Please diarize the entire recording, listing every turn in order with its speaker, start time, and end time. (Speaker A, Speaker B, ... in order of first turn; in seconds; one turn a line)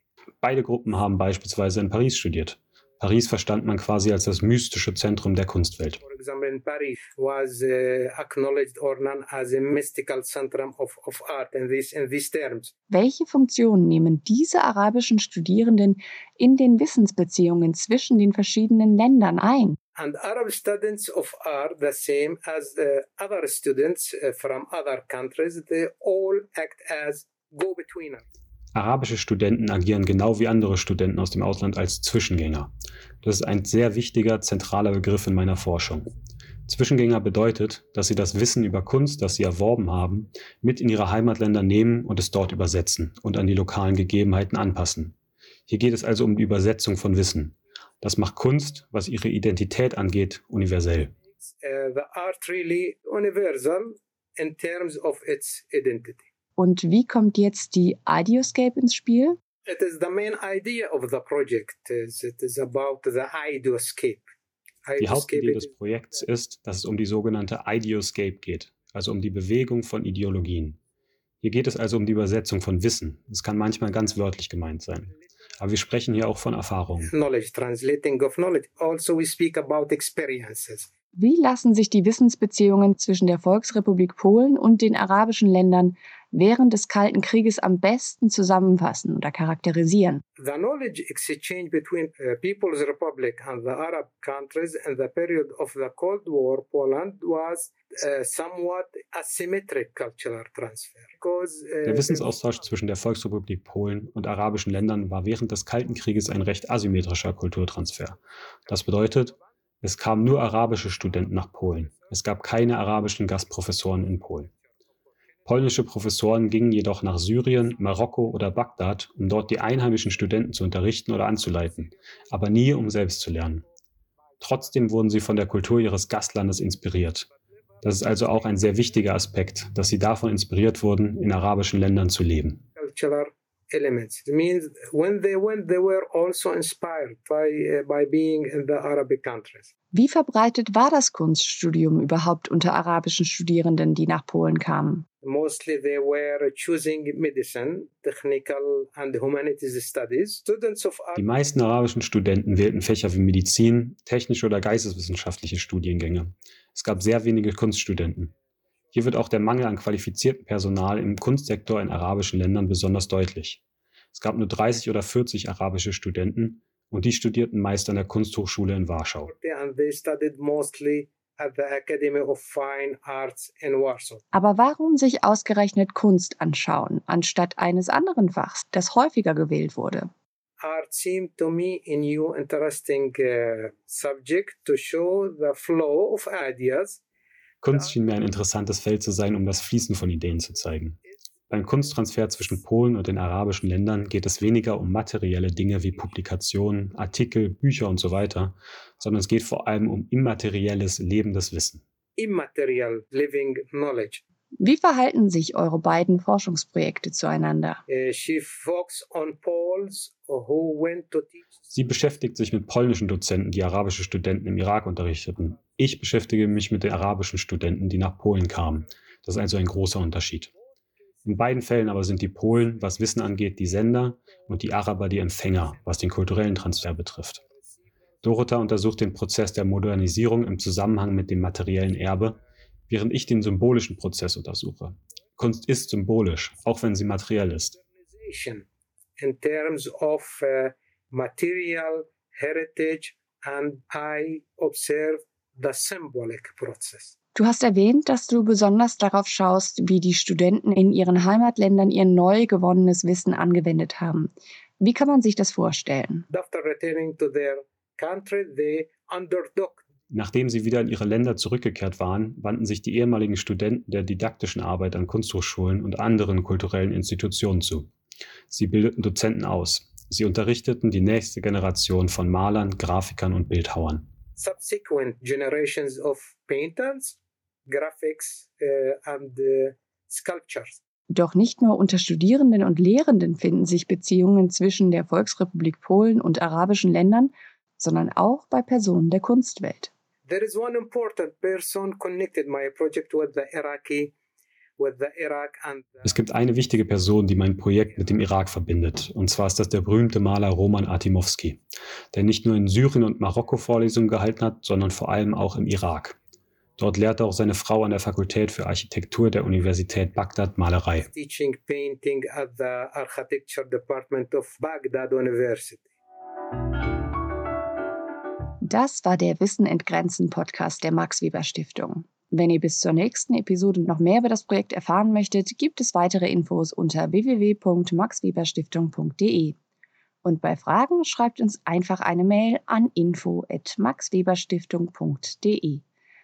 Speaker A: 0.4-6.0
Speaker B: 6.0-12.7
Speaker C: 12.9-19.8
Speaker B: 19.9-28.2
Speaker A: 28.7-36.1
Speaker A: 36.6-45.1
Speaker A: 45.7-51.1
Speaker B: 51.5-56.2
Speaker C: 56.6-59.4
Speaker B: 59.6-64.3
Speaker B: 64.8-65.7
Speaker A: 65.0-70.8
Speaker A: 71.4-77.1
Speaker B: 77.0-80.9
Speaker C: 81.1-90.2
Speaker B: 90.4-102.3
Speaker A: 101.8-114.5
Speaker A: 115.4-123.7
Speaker A: 124.4-127.3
Speaker A: 127.8-132.6
Speaker B: 132.8-139.7
Speaker C: 139.9-145.1
Speaker B: 145.2-151.2
Speaker A: 151.2-158.3
Speaker A: 158.9-163.6
Speaker A: 164.1-169.3
Speaker B: 169.3-174.2
Speaker C: 174.3-180.1
Speaker B: 180.6-187.0
Speaker A: 187.6-201.8
Speaker B: 202.2-204.2
Speaker C: 204.6-207.8
Speaker B: 207.9-211.5
Speaker A: 211.7-220.5
Speaker A: 221.2-227.4
Speaker A: 228.2-237.8
Speaker B: 238.2-238.7
Speaker B: 239.2-247.1
Speaker C: 247.3-256.3
Speaker B: 256.3-259.9
Speaker A: 260.1-267.9
Speaker A: 268.5-274.1
Speaker B: 274.4-280.8
Speaker C: 281.1-289.9
Speaker B: 290.3-294.1
Speaker B: 294.8-296.1
Speaker A: 296.1-301.6
Speaker A: 302.1-306.1
Speaker A: 306.8-311.1
Speaker B: 311.1-315.9
Speaker C: 318.6-329.6
Speaker C: 330.2-335.8